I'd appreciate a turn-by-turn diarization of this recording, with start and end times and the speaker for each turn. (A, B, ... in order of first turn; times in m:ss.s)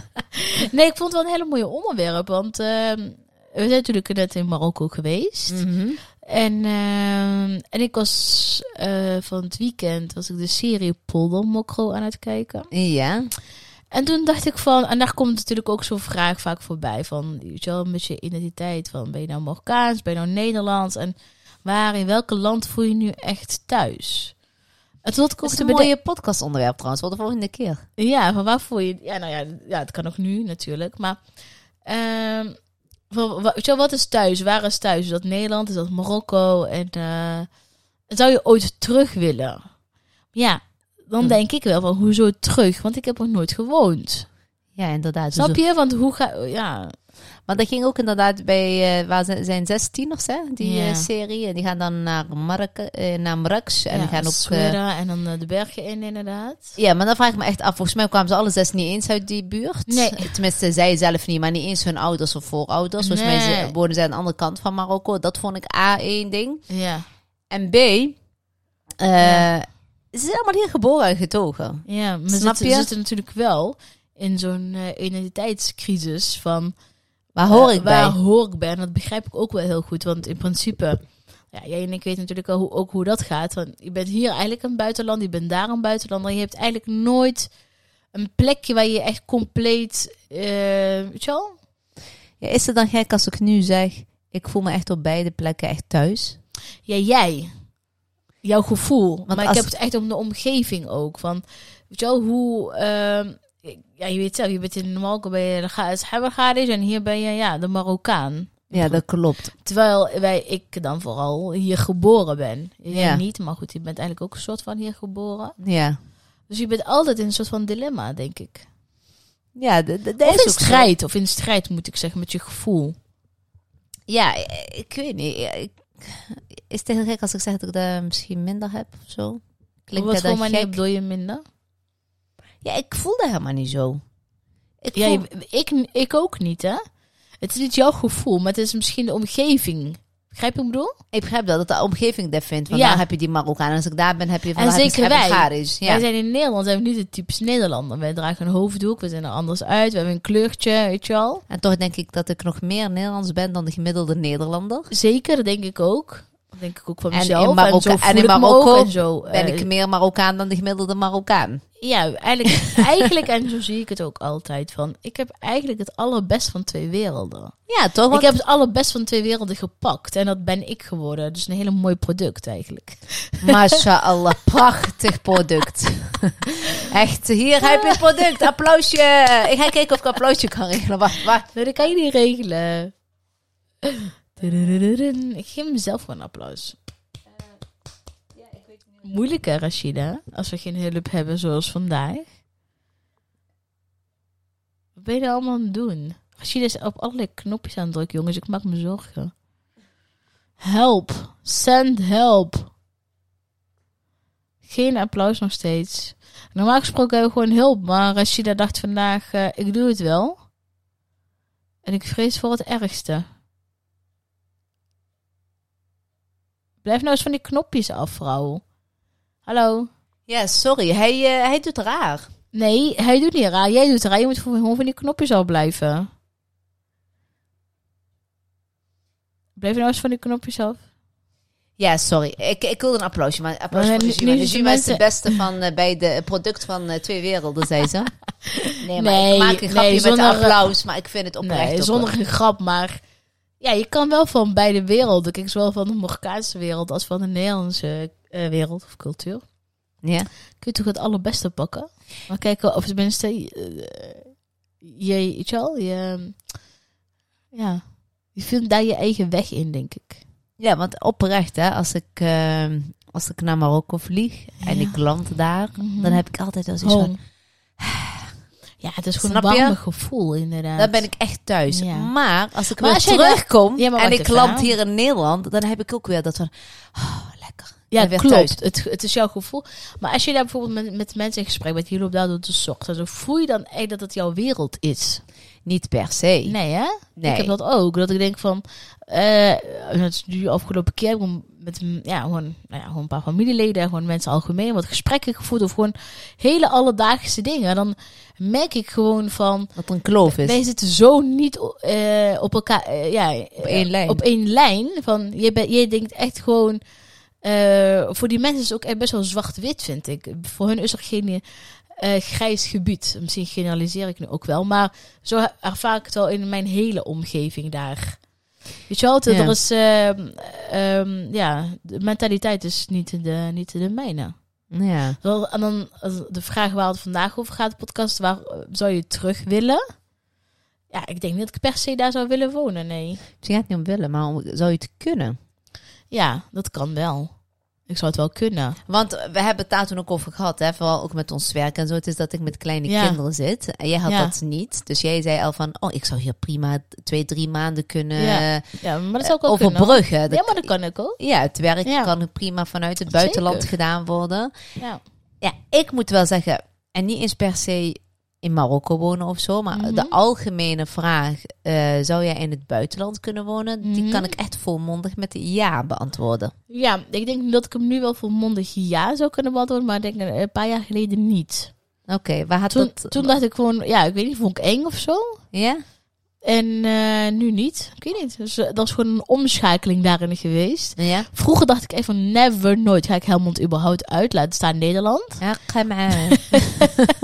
0:00.2-0:05.6 A
0:05.5-0:06.0 B
0:06.2-0:12.7 A
0:12.7-0:13.3 B
0:13.9-0:24.4 A
0:25.0-0:25.9 A
0:25.4-0:27.8 B
0:28.0-0:31.2 A
0:31.8-0:32.6 A
0:33.1-0:37.5 A
0:38.1-0:39.7 A
0:40.3-0:44.3 A
0:44.8-0:45.6 B
0:45.3-0:47.0 A
0:47.5-0:54.8 B
0:50.6-0:51.1 A
0:53.9-0:56.8 A
0:56.8-1:06.6 B
0:59.9-1:00.4 A
1:03.0-1:03.7 A
1:06.7-1:07.1 A
1:07.5-1:08.2 B
1:09.0-1:12.9 B
1:09.2-1:09.5 A
1:11.9-1:16.7 A
1:17.4-1:18.2 B
1:17.5-1:27.5 A
1:28.1-1:31.6 A
1:32.4-1:36.4 B
1:36.9-1:37.5 A
1:38.4-1:49.0 A
1:39.3-1:39.7 B
1:48.7-1:49.5 B
1:49.6-1:55.6 A
1:52.9-1:53.2 B
1:55.6-1:56.0 B
1:56.5-1:58.7 A
1:59.6-2:00.9 B
2:00.2-2:02.9 A
2:04.1-2:10.8 B
2:09.9-2:11.4 A
2:12.6-2:14.0 B
2:14.8-2:15.2 B
2:14.9-2:16.8 A
2:17.4-2:20.9 A
2:21.1-2:26.0 B
2:22.7-2:23.0 A
2:24.6-2:31.4 A
2:31.5-2:34.9 B
2:34.9-2:39.7 A
2:37.1-2:41.6 B
2:41.8-2:47.6 A
2:47.7-2:48.3 B
2:48.1-2:53.8 A
2:53.4-3:01.5 B
2:57.6-2:58.4 A
3:01.5-3:02.9 A
3:03.8-3:06.8 A
3:09.0-3:12.3 A
3:15.0-3:19.3 A
3:20.6-3:22.7 A
3:24.6-3:30.4 A
3:31.8-3:33.3 A
3:36.8-3:38.6 A
3:39.5-3:39.9 A
3:40.3-3:42.3 B
3:42.5-3:46.1 A
3:49.6-3:50.8 A
3:51.8-3:58.1 B
3:53.7-3:55.4 A
3:58.4-4:00.7 A
3:58.8-4:02.1 B
4:01.4-4:03.0 A
4:03.6-4:09.4 A
4:10.0-4:10.3 B
4:10.6-4:16.4 A
4:17.5-4:17.8 A
4:18.3-4:20.2 A
4:20.6-4:27.1 B
4:24.6-4:25.0 A
4:25.8-4:26.2 A
4:26.8-4:27.2 A
4:27.8-4:28.3 B
4:28.8-4:31.1 A
4:29.2-4:29.8 B
4:30.8-4:38.6 B
4:31.7-4:32.1 A
4:32.7-4:34.7 A
4:37.9-4:45.2 A
4:45.6-4:46.6 B
4:46.5-4:59.7 A
4:47.2-4:47.5 B
4:59.8-5:00.6 B
5:00.2-5:06.8 A
5:03.6-5:04.2 B
5:07.4-5:18.2 A
5:18.9-5:24.4 A
5:19.3-5:19.6 B
5:24.7-5:25.2 B
5:25.2-5:30.0 A
5:30.9-5:33.2 A
5:33.4-5:35.4 B
5:36.1-5:38.8 A
5:38.9-5:54.5 B
5:42.9-5:43.2 A
5:44.1-5:44.3 A
5:48.2-5:51.2 A
5:51.8-5:52.1 A
5:53.1-5:53.7 A
5:54.8-5:55.0 A
5:55.4-6:06.5 B
5:59.7-6:00.1 A
6:03.8-6:04.3 A
6:06.7-6:11.7 A
6:12.1-6:13.3 B
6:12.7-6:15.4 A
6:15.5-6:15.8 B
6:16.4-6:25.5 A
6:21.0-6:21.3 B
6:25.4-6:27.1 B